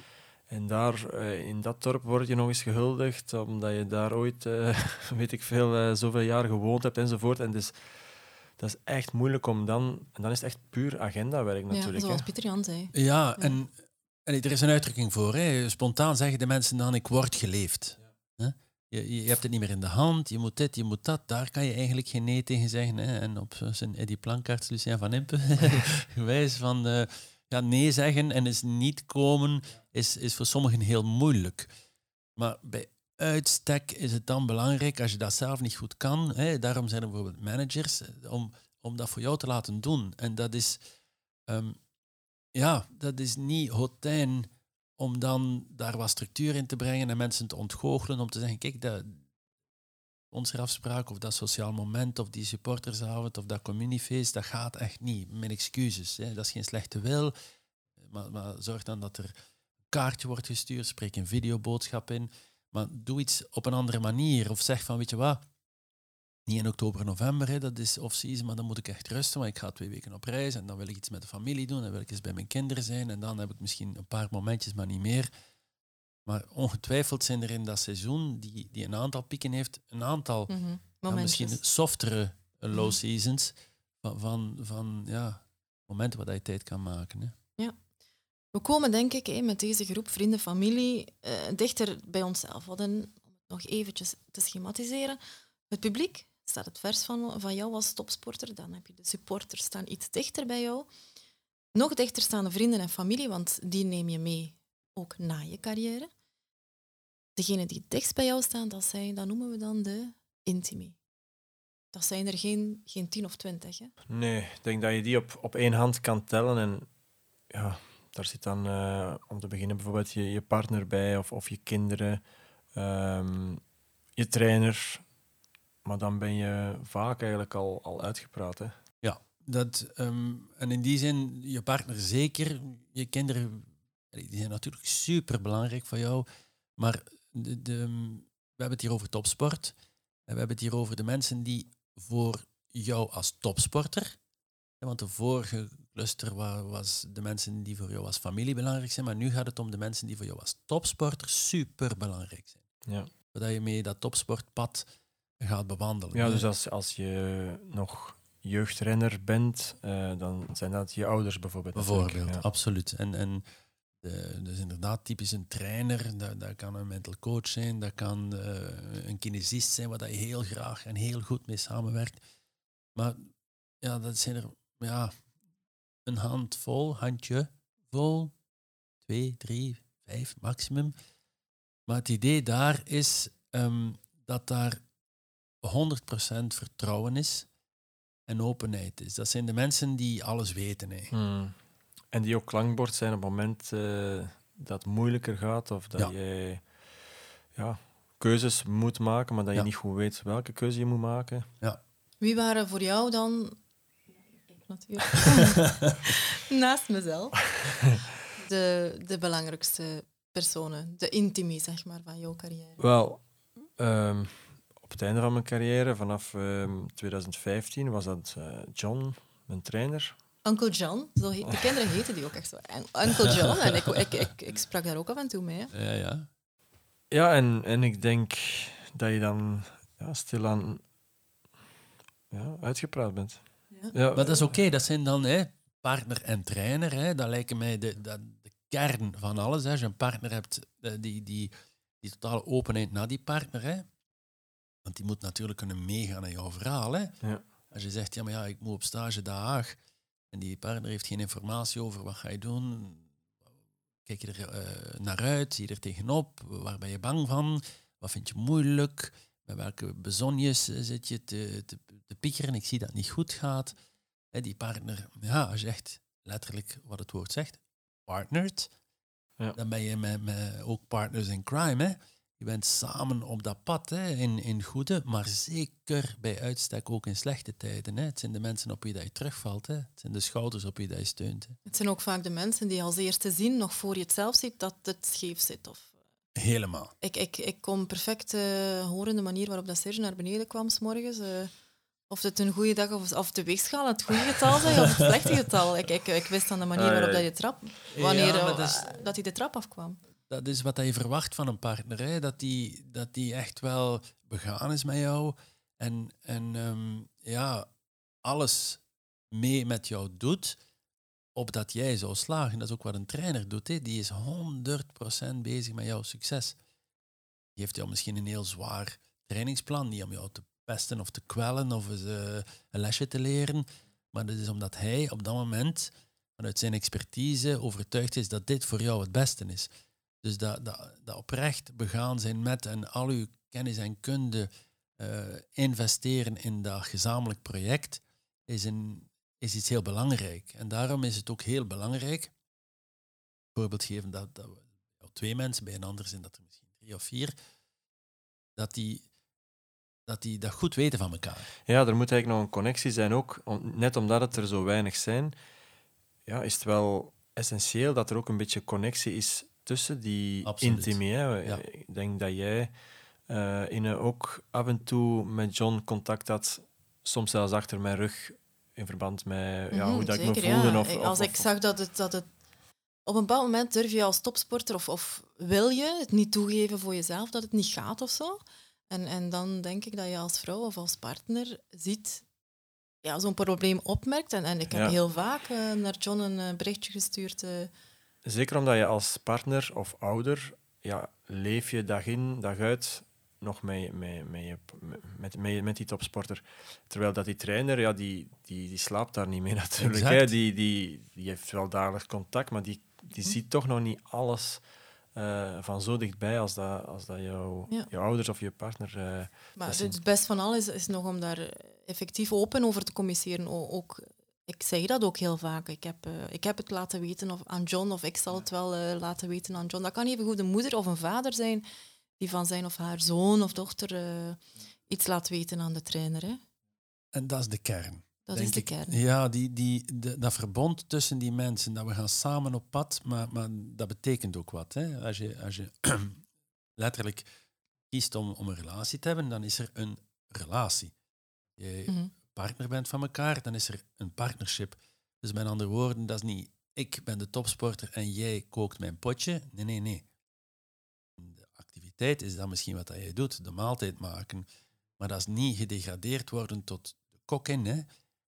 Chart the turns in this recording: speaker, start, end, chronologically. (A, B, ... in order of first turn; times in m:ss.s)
0:00.5-0:12.3 A
0:11.7-0:13.6 B
0:12.9-0:13.8 C
0:14.3-0:31.7 C
0:32.4-0:40.8 C
0:41.5-0:41.8 C
0:42.5-0:49.2 C
0:50.3-0:57.3 C
0:58.0-0:59.3 C
0:59.9-1:05.4 C
1:06.5-1:15.3 C
1:16.2-1:20.6 C
1:20.5-1:21.6 B
1:21.1-1:27.4 C
1:28.5-1:35.2 B
1:35.7-1:40.9 B
1:41.7-1:46.1 B
1:47.4-1:51.0 B
1:51.9-1:53.9 B
1:54.1-1:56.9 A
1:57.5-2:02.2 A
2:02.7-2:03.6 A
2:04.2-2:05.0 A
2:05.8-2:08.7 A
2:09.0-2:16.3 C
2:16.8-2:19.8 C
2:20.3-2:24.2 C
2:24.8-2:32.6 C
2:32.9-2:33.1 A
2:33.3-2:34.9 C
2:35.4-2:36.4 C
2:36.1-2:42.4 A
2:41.8-2:43.4 C
2:44.0-2:52.2 C
2:53.0-2:55.1 C
2:56.0-2:58.4 C
2:59.0-3:00.9 C
3:01.9-3:04.8 C
3:05.6-3:07.5 C
3:08.3-3:11.1 C
3:11.1-3:11.6 A
3:12.1-3:16.7 A
3:17.6-3:21.5 A
3:22.2-3:23.6 B
3:24.5-3:27.7 B
3:28.4-3:32.8 B
3:32.8-3:33.2 A
3:33.8-3:40.2 A
3:40.4-3:45.7 B
3:45.7-3:46.3 C
3:47.1-3:50.8 A
3:52.3-3:54.4 A
3:54.1-4:03.9 C
4:04.8-4:07.2 C
4:07.7-4:09.8 C
4:10.3-4:13.1 C
4:14.0-4:23.7 C
4:24.3-4:28.7 C
4:29.6-4:41.6 C
4:41.7-4:45.9 B
4:46.4-4:46.9 C
4:47.0-4:51.5 B
4:52.1-5:00.0 B
4:56.8-4:57.3 A
4:57.9-4:59.0 C
5:00.3-5:07.7 C
5:08.2-5:10.6 C
5:11.4-5:16.6 C
5:17.6-5:29.7 C
5:30.2-5:42.3 C
5:43.5-5:47.3 C
5:48.6-5:49.0 C
5:50.1-5:51.5 C
5:51.7-5:55.3 A
5:56.3-6:02.7 A
6:00.4-6:01.6 C
6:03.3-6:11.5 A
6:09.7-6:12.3 B
6:13.1-6:22.2 B
6:23.0-6:27.7 B
6:24.7-6:25.0 A
6:28.2-6:44.6 A
6:39.8-6:40.3 C
6:45.2-6:50.0 A
6:49.6-7:01.6 B
7:02.2-7:06.4 B
7:07.1-7:16.2 C
7:08.3-7:09.0 B
7:16.8-7:17.3 C
7:17.9-7:20.9 C
7:21.6-7:30.0 C
7:21.9-7:22.1 B
7:31.2-7:34.5 C
7:35.0-7:37.9 C